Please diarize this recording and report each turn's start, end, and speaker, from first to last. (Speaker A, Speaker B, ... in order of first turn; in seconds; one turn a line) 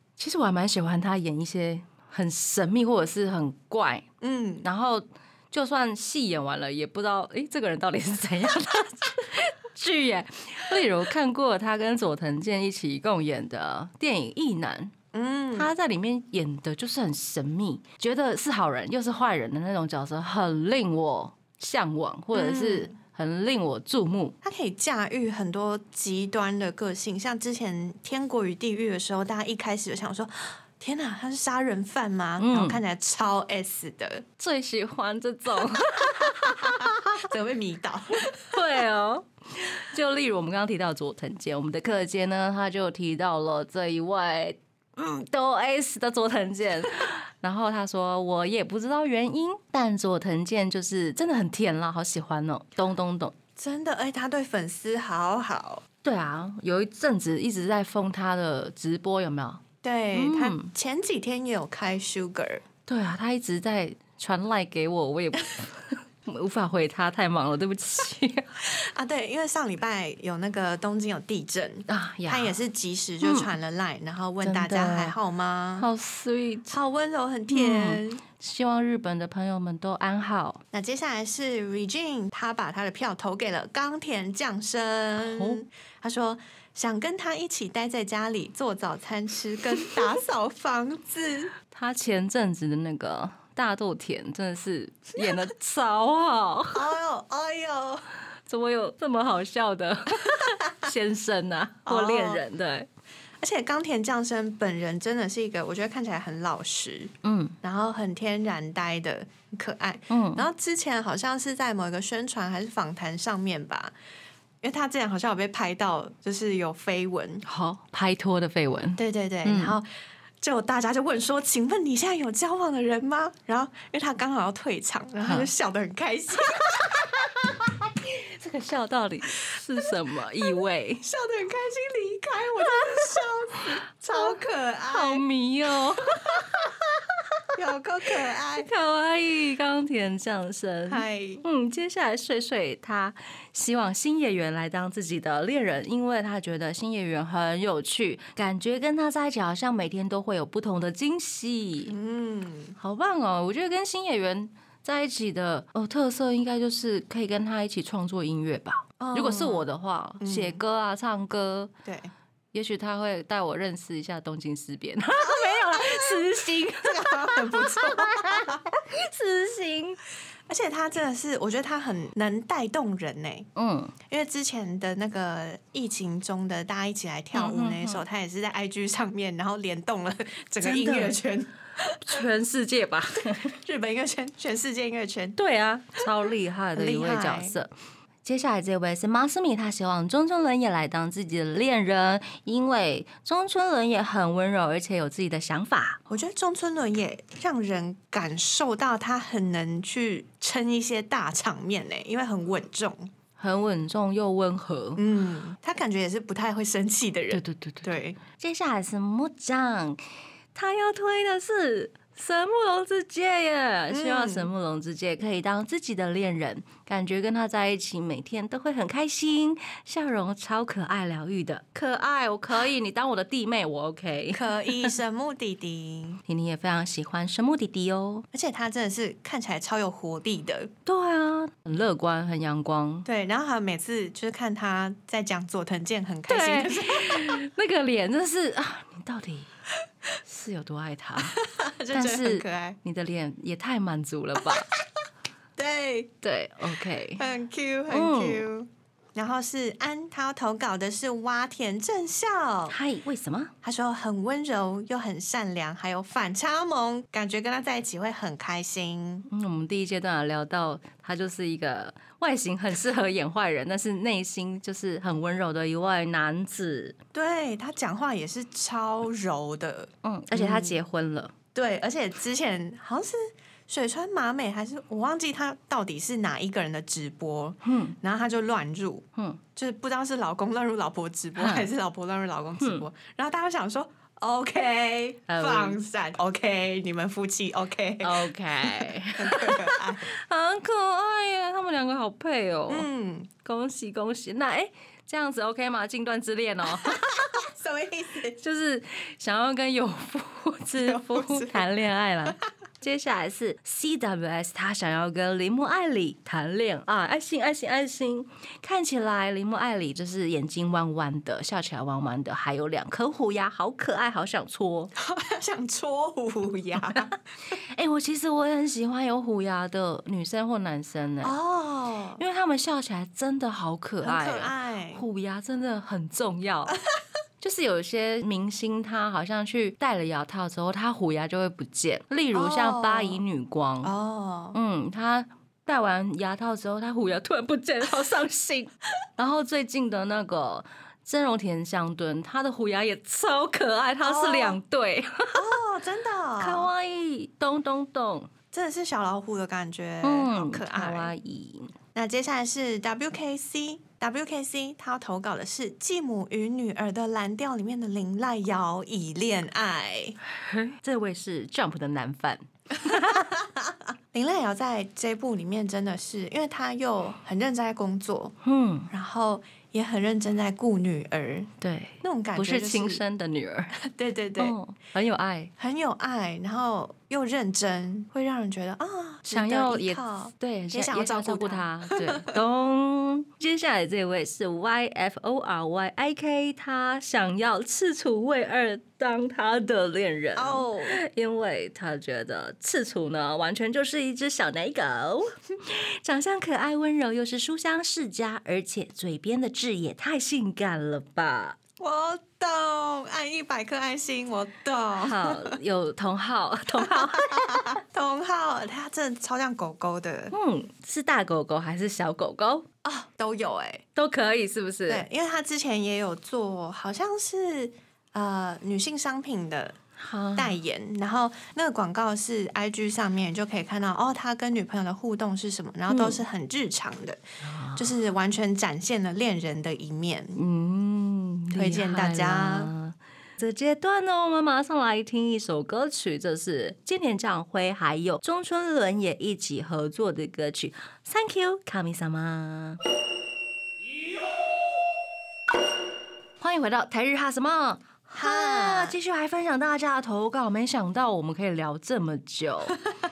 Speaker A: 0.2-4.0
Speaker B: 4.2-4.7
Speaker A: 4.6-14.9
Speaker B: 15.1-15.7
Speaker A: 15.5-24.3
Speaker B: 22.3-22.9
Speaker B: 24.4-34.2
Speaker A: 32.4-32.8
Speaker A: 34.4-37.3
Speaker B: 36.0-38.6
Speaker A: 38.5-53.3
Speaker B: 53.6-55.8
Speaker A: 56.0-59.6
Speaker B: 59.8-62.6
Speaker A: 60.1-60.7
Speaker A: 62.9-68.5
Speaker B: 68.6-75.9
Speaker A: 71.9-72.6
Speaker A: 73.2-73.5
Speaker A: 74.4-75.1
Speaker A: 75.8-76.8
Speaker B: 76.7-78.2
Speaker A: 77.5-80.6
Speaker B: 80.7-91.5
Speaker A: 85.2-85.6
Speaker A: 91.7-96.9
Speaker B: 96.7-98.0
Speaker A: 98.5-102.9
Speaker B: 101.8-102.4
Speaker B: 103.4-113.9
Speaker A: 107.2-107.5
Speaker A: 110.1-110.5
Speaker B: 114.6-117.4
Speaker A: 117.4-119.8
Speaker B: 119.0-119.9
Speaker B: 120.4-127.5
Speaker A: 125.2-125.5
Speaker A: 127.9-131.1
Speaker B: 131.0-135.2
Speaker A: 132.6-133.1
Speaker A: 134.9-136.6
Speaker B: 137.5-138.7
Speaker A: 138.5-151.9
Speaker B: 140.9-141.4
Speaker B: 151.9-152.8
Speaker A: 152.8-161.7
Speaker B: 159.0-159.7
Speaker B: 160.2-160.6
Speaker B: 161.8-162.1
Speaker A: 162.5-170.0
Speaker B: 165.2-168.6
Speaker B: 170.5-173.5
Speaker A: 173.6-173.9
Speaker B: 174.1-182.2
Speaker A: 177.3-178.0
Speaker A: 180.6-181.2
Speaker A: 182.0-183.6
Speaker B: 183.3-185.3
Speaker A: 185.4-187.7
Speaker B: 186.7-187.5
Speaker A: 188.2-196.0
Speaker B: 196.1-203.1
Speaker A: 203.4-205.0
Speaker B: 205.0-208.2
Speaker A: 207.3-210.0
Speaker A: 210.5-224.9
Speaker B: 213.9-214.5
Speaker B: 224.3-226.2
Speaker A: 226.3-228.2
Speaker B: 228.3-230.7
Speaker A: 230.8-233.1
Speaker B: 233.1-237.4
Speaker A: 236.3-239.5
Speaker A: 240.2-241.4
Speaker B: 241.2-242.8
Speaker A: 241.9-244.7
Speaker B: 244.4-244.8
Speaker B: 245.6-246.1
Speaker A: 246.2-247.2
Speaker B: 247.2-252.8
Speaker A: 247.9-248.4
Speaker A: 252.7-253.5
Speaker B: 253.6-259.2
Speaker A: 259.3-267.0
Speaker B: 267.1-270.8
Speaker A: 270.0-271.3
Speaker B: 271.5-290.1
Speaker A: 277.6-277.9
Speaker A: 281.4-281.7
Speaker A: 282.6-282.9
Speaker A: 285.3-285.8
Speaker A: 288.0-292.9
Speaker B: 292.7-293.3
Speaker A: 293.4-297.2
Speaker B: 296.7-298.4
Speaker A: 298.4-314.9
Speaker B: 300.8-301.7
Speaker B: 315.0-317.1
Speaker A: 316.9-321.3
Speaker B: 321.2-322.2
Speaker A: 322.2-326.8
Speaker B: 324.0-325.0
Speaker A: 327.4-333.9
Speaker B: 332.3-333.2
Speaker B: 333.8-334.6
Speaker A: 334.5-345.5
Speaker B: 344.0-344.6
Speaker B: 345.3-346.7
Speaker A: 346.4-348.3
Speaker B: 348.5-351.1
Speaker A: 350.0-351.7
Speaker B: 351.9-360.2
Speaker A: 360.4-363.3
Speaker B: 362.8-368.3
Speaker A: 368.4-368.9
Speaker B: 368.9-371.5
Speaker A: 371.6-373.8
Speaker B: 372.0-373.0
Speaker B: 373.8-374.6
Speaker A: 374.4-375.5
Speaker B: 375.6-382.4
Speaker A: 379.3-401.6
Speaker B: 390.4-391.0
Speaker B: 401.8-405.6
Speaker A: 405.0-407.8
Speaker B: 406.8-410.3
Speaker A: 410.3-412.6
Speaker B: 412.8-413.8
Speaker A: 413.9-415.1
Speaker B: 414.9-419.8
Speaker A: 420.0-420.6
Speaker B: 420.4-427.2
Speaker A: 425.9-426.2
Speaker A: 427.4-427.9
Speaker B: 427.7-430.4
Speaker A: 430.4-442.8
Speaker B: 431.5-432.7
Speaker A: 446.4-452.8
Speaker B: 448.1-448.9